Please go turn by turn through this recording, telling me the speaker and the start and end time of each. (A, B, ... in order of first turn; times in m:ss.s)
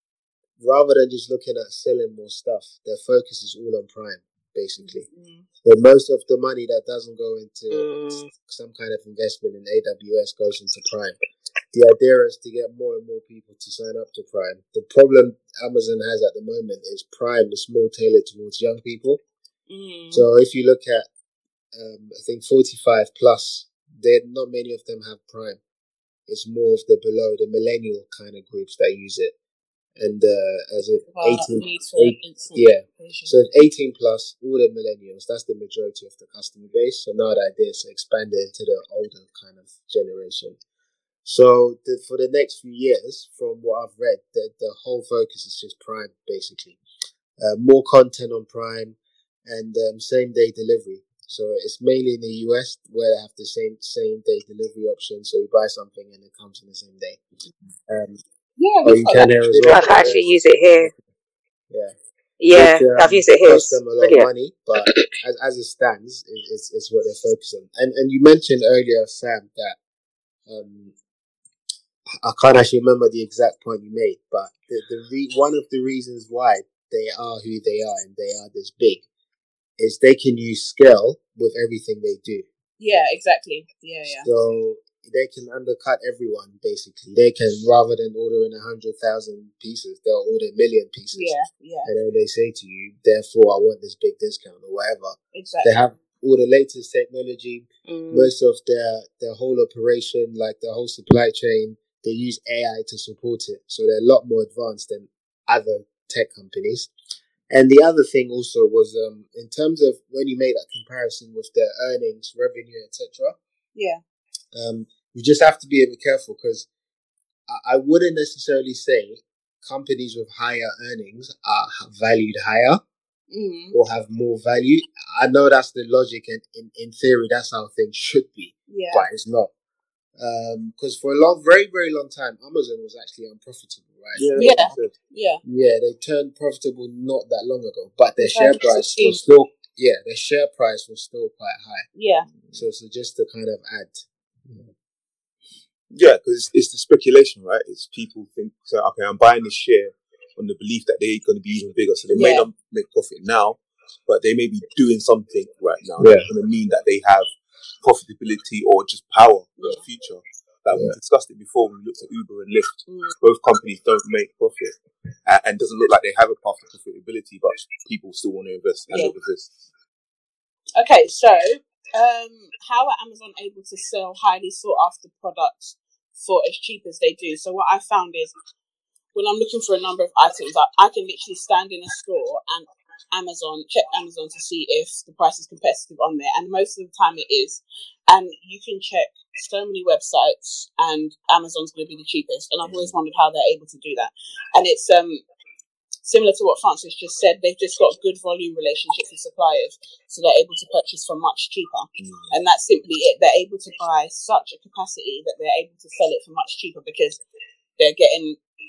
0:00.6-0:05.0 A
0:04.8-0:05.5 B
0:05.6-0:11.2 A
0:07.7-0:08.3 C
0:11.7-0:19.2 A
0:19.7-0:20.3 B
0:20.1-0:21.1 A
0:21.7-0:25.6 A
0:26.3-0:29.3 A
0:30.0-0:40.6 A
0:31.1-0:33.3 B
0:41.2-0:46.8 A
0:47.4-0:57.2 A
0:57.9-0:58.2 A
0:58.6-1:00.1 B
0:58.8-1:00.2 A
0:59.7-1:00.9 C
1:02.4-1:04.3 C
1:02.5-1:09.8 A
1:10.5-1:10.9 A
1:12.2-1:19.0 A
1:19.8-1:22.4 A
1:22.8-1:24.3 B
1:24.2-1:46.9 A
1:31.1-1:31.9 B
1:35.3-1:35.8 B
1:37.9-1:38.3 C
1:47.5-1:53.4 A
1:53.7-1:54.0 B
1:54.5-1:56.7 A
1:57.5-2:02.8 A
2:03.3-2:03.8 B
2:03.7-2:09.5 A
2:08.7-2:09.1 B
2:10.2-2:14.8 A
2:14.1-2:14.9 D
2:14.4-2:15.4 B
2:15.4-2:21.9 A
2:18.2-2:19.2 B
2:21.9-2:22.3 B
2:22.3-2:22.6 D
2:22.5-2:24.7 A
2:25.9-2:37.3 D
2:32.1-2:32.5 B
2:36.0-2:36.3 A
2:37.8-2:49.5 D
2:40.7-2:41.0 A
2:42.9-2:43.1 B
2:50.8-2:58.3 B
2:59.1-3:15.2 B
3:12.6-3:12.9 D
3:16.0-3:27.2 B
3:22.0-3:22.4 D
3:27.8-3:28.4 B